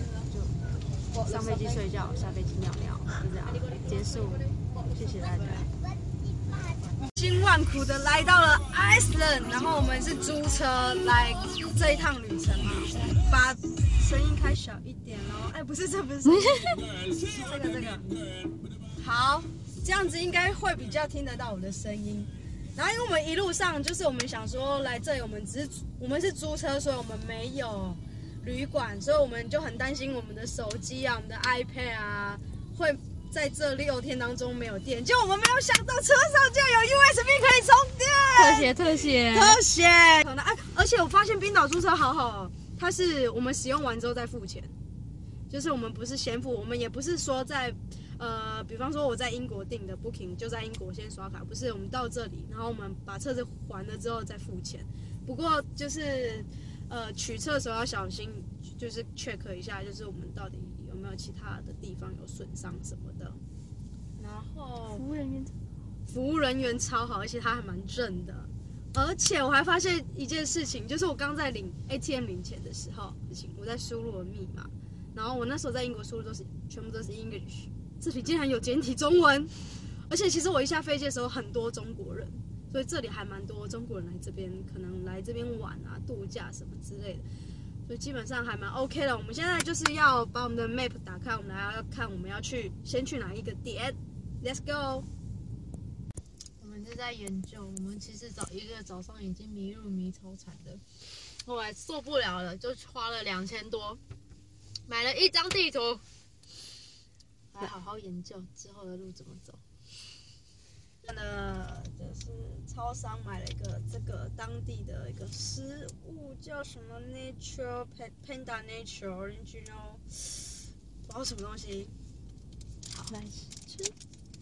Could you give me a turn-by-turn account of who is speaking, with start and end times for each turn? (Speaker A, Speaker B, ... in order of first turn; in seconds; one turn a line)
Speaker A: 1.1-5.7
Speaker A: 7.0-18.1
Speaker B: 16.3-16.9
Speaker A: 18.9-38.7
Speaker B: 38.4-39.6
Speaker A: 39.3-44.7
Speaker A: 45.5-63.4
Speaker A: 64.2-65.0
Speaker B: 64.9-65.5
Speaker A: 66.1-79.5
Speaker A: 80.1-87.2
Speaker A: 87.9-95.1
Speaker B: 96.6-100.8
Speaker B: 101.4-104.0
Speaker B: 104.9-106.0
Speaker B: 107.5-109.6
Speaker A: 111.0-120.5
Speaker A: 121.0-121.9
Speaker B: 123.1-123.9